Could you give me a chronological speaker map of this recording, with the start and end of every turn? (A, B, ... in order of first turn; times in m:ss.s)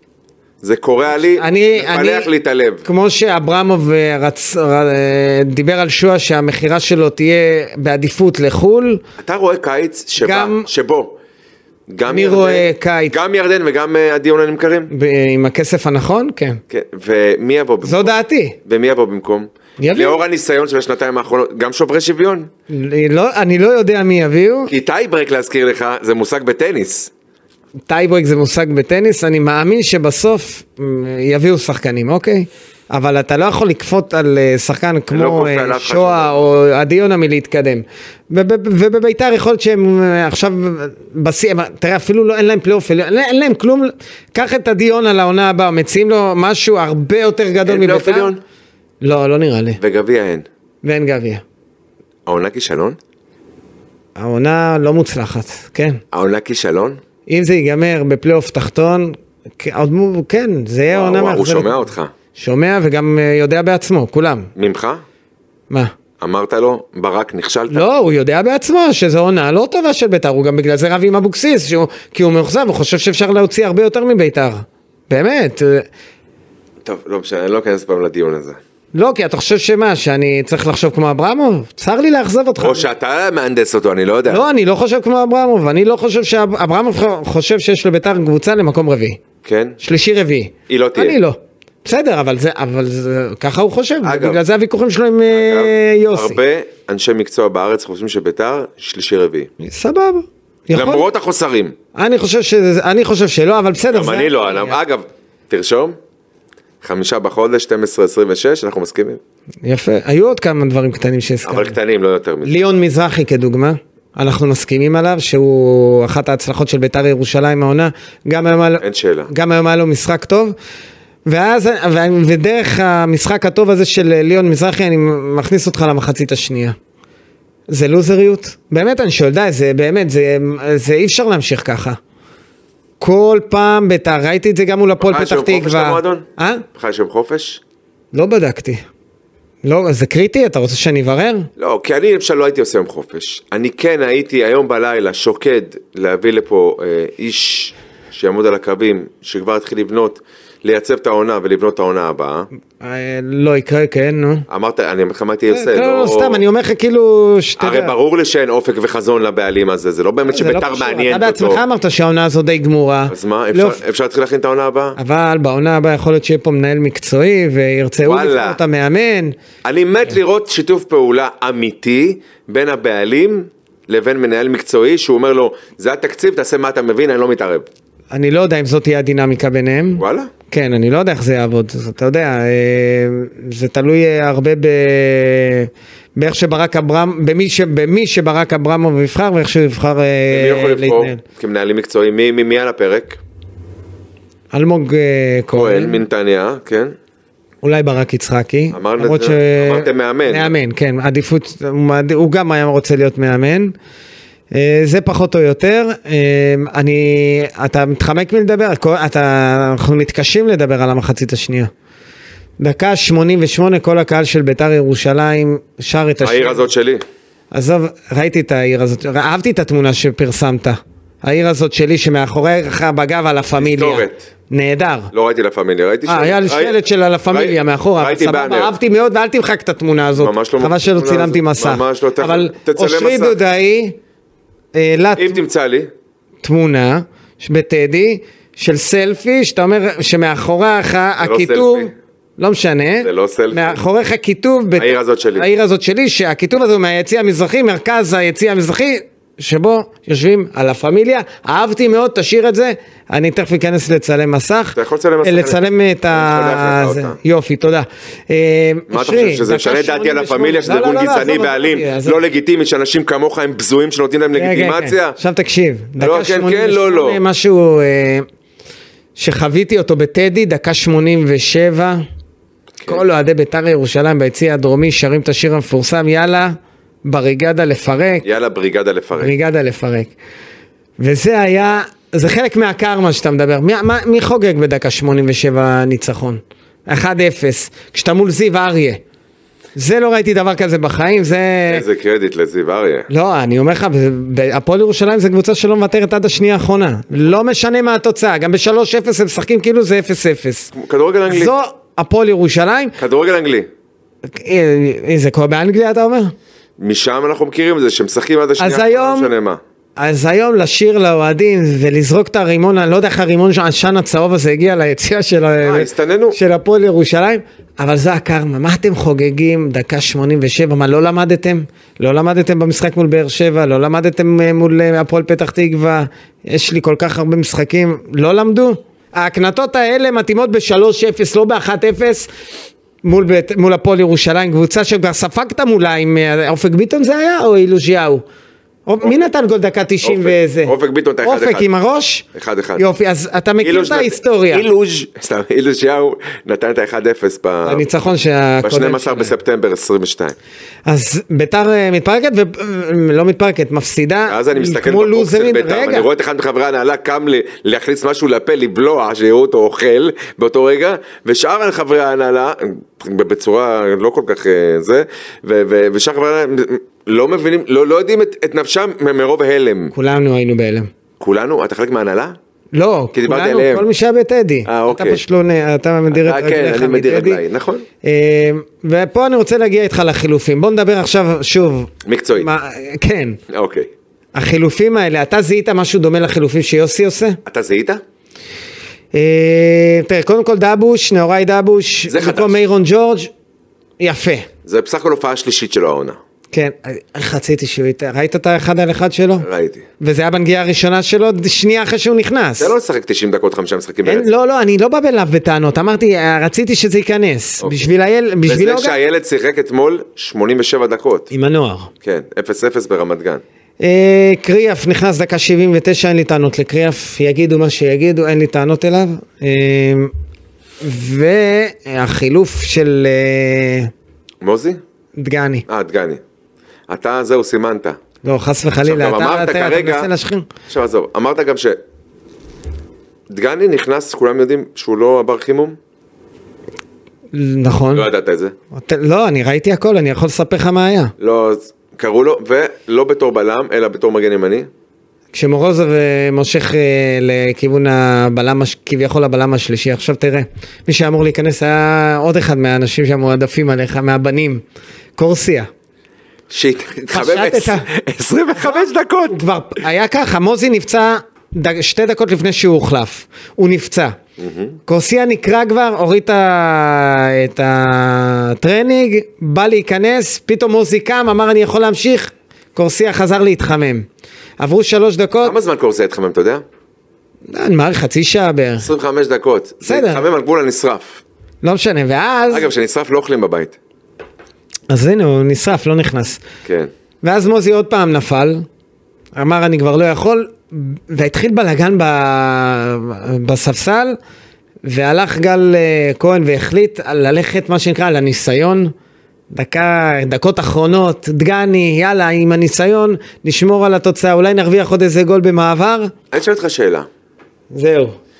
0:00.6-0:02.8 A
0:01.1-0:02.3 B
0:02.8-0:09.0 B
0:09.2-0:11.2 A
0:10.2-0:10.7 B
0:11.9-0:14.9 A
0:12.1-0:13.2 B
0:14.9-0:16.6 B
0:16.7-0:18.1 A
0:17.8-0:18.6 B
0:18.6-0:22.5 A
0:19.8-0:20.2 B
0:22.7-0:24.7 B
0:24.7-0:27.1 A
0:27.9-0:48.3 B
0:35.1-0:36.3 A
0:47.6-0:48.4 A
0:49.0-0:49.8 B
0:49.8-0:50.4 A
0:50.8-0:51.4 B
0:52.2-0:53.0 A
0:54.2-0:56.0 B
0:56.1-0:57.0 A
0:57.3-1:01.8 B
1:00.9-1:02.1 A
1:02.3-1:04.5 B
1:04.6-1:05.0 A
1:06.2-1:07.8 A
1:07.7-1:15.9 B
1:16.8-1:18.6 A
1:18.9-1:22.9 B
1:22.6-1:24.4 A
1:24.3-1:29.2 B
1:29.4-1:29.8 A
1:29.8-1:36.4 B
1:30.7-1:31.2 A
1:34.0-1:34.4 A
1:35.3-1:39.5 A
1:39.6-1:41.0 B
1:40.7-1:41.7 A
1:41.9-1:44.8 B
1:43.9-1:46.0 A
1:46.8-1:49.2 A
1:49.6-1:51.8 B
1:51.4-1:52.6 A
1:52.4-2:00.5 B
1:58.8-1:59.3 A
2:01.2-2:06.8 B
2:07.7-2:12.0 B
2:13.0-2:16.6 B
2:15.0-2:17.6 A
2:18.1-2:18.8 B
2:19.6-2:21.5 B
2:21.6-2:32.5 A
2:32.8-2:34.5 B
2:34.5-2:36.4 A
2:35.5-2:37.9 B
2:37.6-2:41.6 A
2:40.3-2:43.8 B
2:43.1-2:45.0 A
2:45.0-2:49.3 B
2:48.0-2:48.6 A
2:49.6-2:57.7 A
2:58.1-3:11.2 B
3:00.0-3:00.3 A
3:10.3-3:13.2 A
3:14.5-3:16.0 B
3:15.5-3:16.9 A
3:17.6-3:23.7 B
3:18.7-3:20.5 A
3:24.5-3:31.7 B
3:32.6-3:36.7 B
3:36.2-3:37.0 A
3:37.5-3:45.1 B
3:43.6-3:44.2 A
3:45.1-3:46.8 A
3:46.0-3:54.0 B
3:47.3-3:48.7 A
3:50.2-3:53.4 A
3:54.7-3:55.4 B
3:55.2-3:55.9 A
3:56.4-4:22.2 B
4:01.2-4:01.9 A
4:03.0-4:03.8 A
4:04.8-4:05.5 A
4:14.7-4:17.2 A
4:18.9-4:25.2 A
4:24.3-4:28.2 B
4:26.0-4:27.2 A
4:29.2-4:32.0 B
4:32.9-4:36.5 B
4:37.0-4:38.3 B
4:38.2-4:39.3 A
4:39.2-4:40.1 B
4:41.0-4:49.0 B
4:49.8-4:51.8 B
4:51.7-4:53.1 A
4:53.1-5:00.7 B
5:00.7-5:01.5 A
5:01.3-5:03.0 B
5:03.0-5:03.7 A
5:04.2-5:06.3 B
5:06.8-5:09.6 A
5:08.6-5:09.3 B
5:10.0-5:32.3 B
5:15.6-5:16.4 A
5:33.0-5:38.2 B
5:38.9-5:42.2 B
5:40.0-5:41.7 A
5:42.3-5:42.8 A
5:42.8-5:44.6 B
5:43.6-5:47.8 A
5:47.6-5:49.3 B
5:48.6-5:50.4 A
5:50.8-5:56.1 B
5:54.3-6:09.9 A
6:09.9-6:10.9 B
6:11.2-6:12.4 A
6:12.7-6:17.4 B
6:13.1-6:13.9 A
6:14.6-6:15.2 A
6:16.1-6:17.8 A
6:18.0-6:23.4 B
6:22.0-6:22.5 A
6:23.5-6:23.9 A
6:24.3-6:27.4 B
6:27.4-6:28.0 A
6:29.1-6:33.3 B
6:32.1-6:32.6 A
6:34.0-6:34.5 B
6:34.6-6:36.2 A
6:36.5-6:39.4 B
6:39.4-6:39.8 A
6:40.0-6:42.7 B
6:42.6-6:44.3 A
6:44.0-6:49.0 B
6:47.6-6:47.9 A
6:48.5-6:51.3 A
6:51.3-6:51.9 B
6:52.0-6:53.4 A
6:53.8-7:00.1 B
7:00.8-7:03.9 B
7:04.4-7:04.8 A
7:05.2-7:05.6 B
7:05.7-7:06.2 A
7:06.9-7:08.0 A
7:08.2-7:10.5 B
7:08.8-7:10.1 A
7:10.7-7:11.8 A
7:13.3-7:15.8 A
7:17.3-7:18.1 B
7:17.9-7:18.5 A
7:18.7-7:21.1 B
7:21.2-7:24.7 A
7:25.3-7:34.6 B
7:35.2-7:35.7 B
7:36.5-7:39.4 A
7:37.1-7:37.8 B
7:38.6-7:44.2 B
7:44.4-7:44.8 A
7:44.9-7:54.0 B
7:54.6-7:55.6 B
7:55.4-7:56.6 A
7:57.5-7:58.9 B
7:58.8-8:01.2 A
7:59.8-8:00.2 B
8:01.6-8:02.7 B
8:02.5-8:03.8 A
8:04.9-8:06.4 B
8:06.6-8:06.9 A
8:07.2-8:08.6 B
8:09.4-8:14.2 B
8:14.8-8:18.9 B
8:19.5-8:26.1 B
8:26.3-8:27.1 A
8:27.7-8:28.2 B